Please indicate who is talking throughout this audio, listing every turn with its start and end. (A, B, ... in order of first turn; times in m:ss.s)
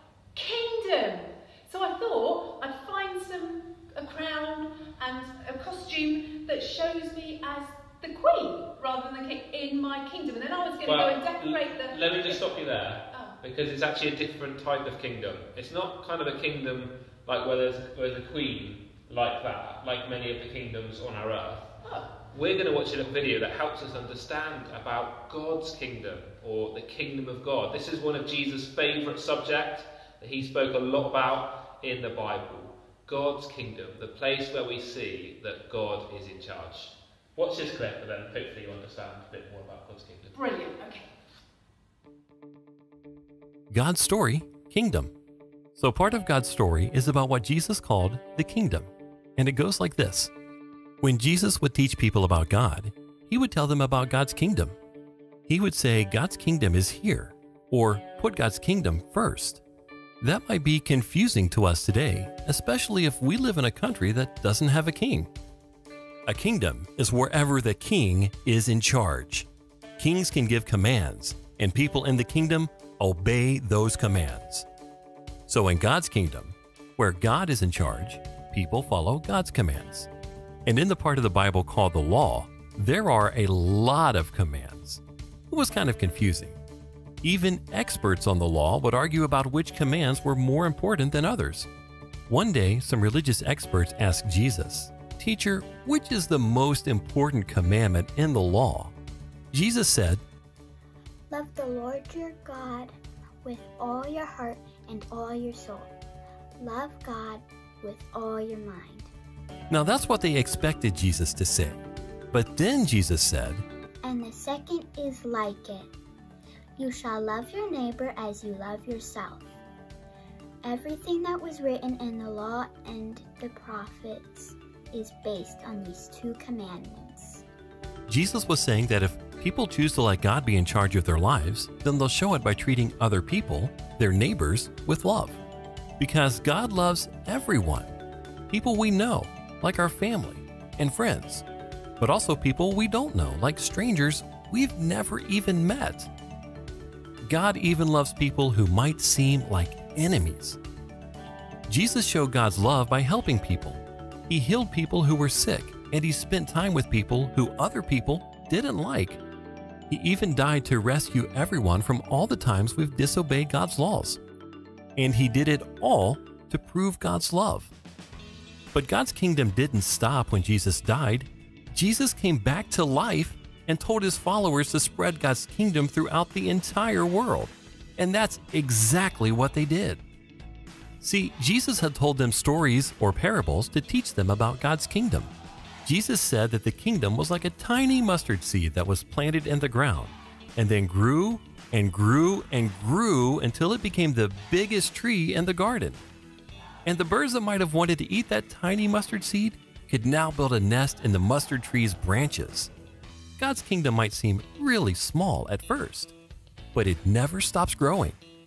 0:00.3-0:12.6 A
0:10.8-0:21.7 B
0:13.1-0:13.4 A
0:21.8-0:22.1 A
0:22.3-0:40.4 B
0:40.3-0:41.1 A
0:43.7-0:45.1 C
0:45.8-0:50.3 C
0:51.0-0:54.8 C
0:55.5-0:59.6 C
1:00.2-1:05.3 C
1:06.3-1:14.6 C
1:15.5-1:20.1 C
1:20.6-1:26.6 C
1:27.2-1:31.7 C
1:32.3-1:38.9 C
1:39.5-1:40.2 C
1:41.3-1:45.9 D
1:46.6-1:49.1 D
1:49.7-1:51.8 C
1:52.3-1:53.6 C
1:54.0-1:55.9 D
1:56.8-1:59.4 D
2:00.6-2:07.4 D
2:08.1-2:15.4 C
2:16.0-2:18.0 C
2:18.5-2:21.4 C
2:22.0-2:26.1 C
2:27.2-2:30.6 C
2:31.7-2:39.2 C
2:39.9-2:44.2 C
2:45.0-2:47.7 C
2:48.7-3:00.0 C
3:01.0-3:05.3 C
3:05.8-3:16.0 C
3:16.8-3:22.7 C
3:23.4-3:26.1 C
3:26.7-3:28.2 C